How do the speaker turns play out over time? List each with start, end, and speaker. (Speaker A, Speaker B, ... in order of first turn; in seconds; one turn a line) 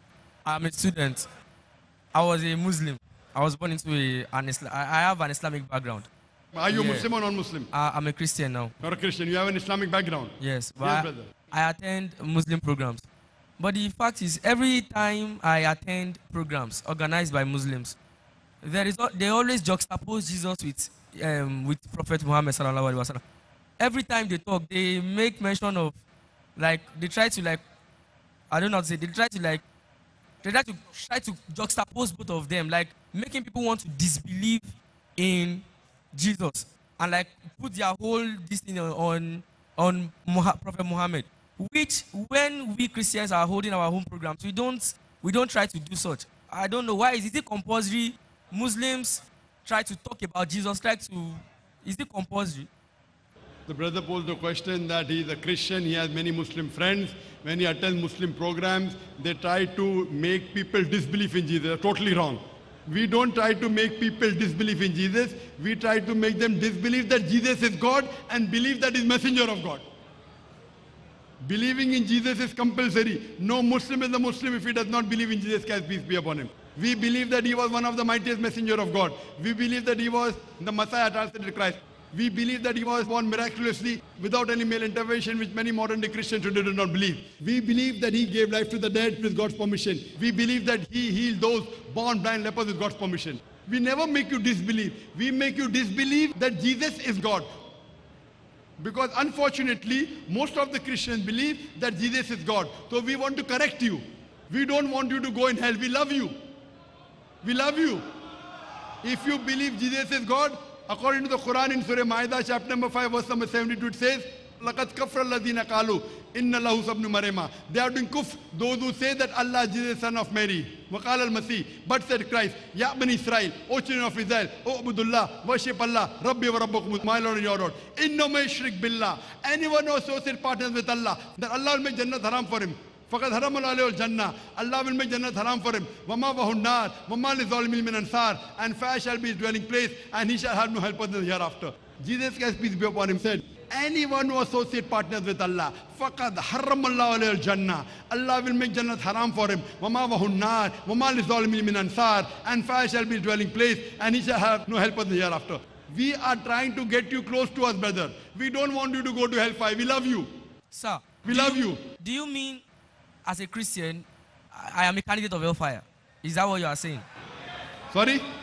Speaker A: 0.5-1.3
Speaker A: 2.1-6.1
Speaker B: 6.6-7.7
Speaker A: 6.7-7.1
Speaker A: 7.7-8.7
Speaker B: 8.8-11.3
Speaker A: 10.4-13.1
Speaker A: 13.6-18.0
Speaker A: 18.6-23.2
Speaker A: 23.8-26.0
Speaker A: 26.6-27.6
Speaker A: 28.5-29.6
Speaker A: 30.4-52.7
Speaker B: 53.7-69.8
Speaker B: 71.4-97.5
Speaker B: 98.8-106.3
Speaker B: 107.4-108.0
Speaker B: 109.0-160.3
Speaker A: 160.7-162.6
Speaker B: 161.2-161.8
Speaker A: 163.2-167.1
Speaker B: 167.9-168.2